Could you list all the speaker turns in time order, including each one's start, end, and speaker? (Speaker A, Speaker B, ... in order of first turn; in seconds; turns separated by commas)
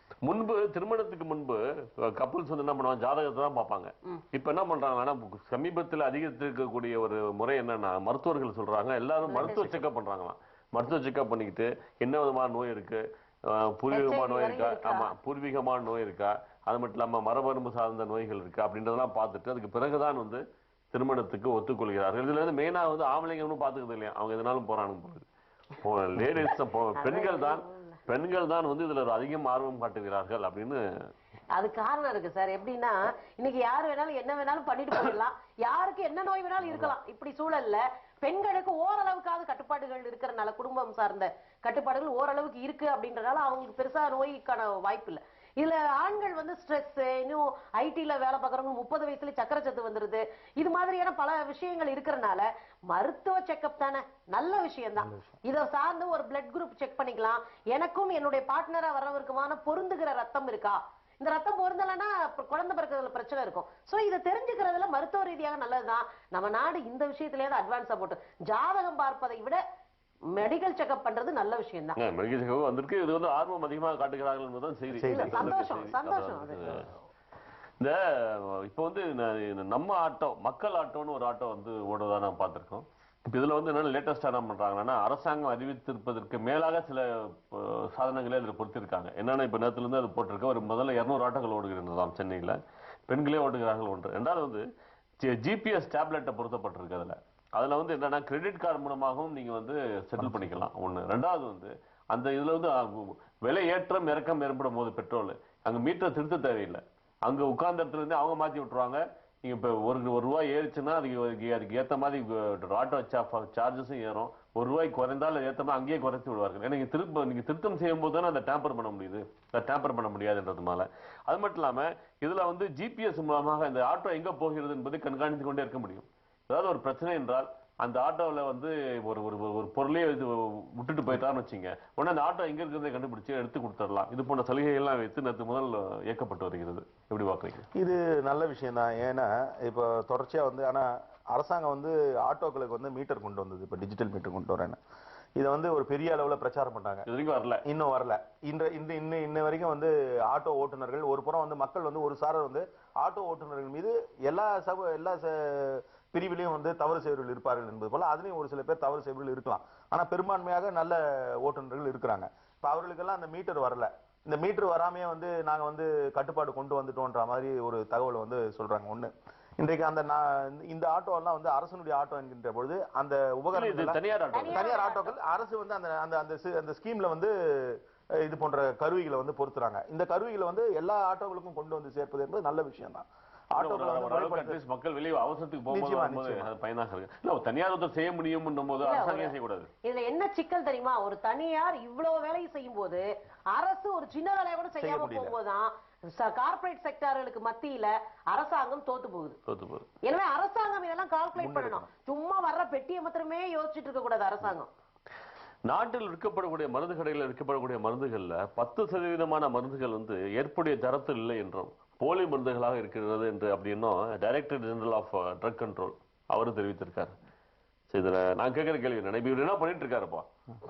Speaker A: 0.2-25.3, Speaker B: 9.3-9.8, Speaker B: 13.9-15.1, Speaker A: 25.8-30.8, Speaker B: 27.0-28.0, Speaker B: 31.6-69.6, Speaker A: 36.6-36.9, Speaker B: 70.3-72.0, Speaker A: 72.0-76.9, Speaker C: 74.9-75.6, Speaker B: 75.0-76.9, Speaker A: 77.8-94.7, Speaker A: 95.2-137.7, Speaker C: 137.8-144.8, Speaker C: 145.4-147.1, Speaker A: 147.1-147.6, Speaker C: 147.7-174.0, Speaker A: 173.5-174.7, Speaker B: 174.3-175.2, Speaker C: 174.5-184.6, Speaker A: 183.6-189.7, Speaker C: 185.7-186.5, Speaker B: 188.8-193.1, Speaker B: 193.6-199.4, Speaker C: 194.8-195.4, Speaker A: 199.5-199.9, Speaker B: 200.0-204.7, Speaker C: 201.4-201.9, Speaker A: 205.7-217.2, Speaker A: 217.9-220.3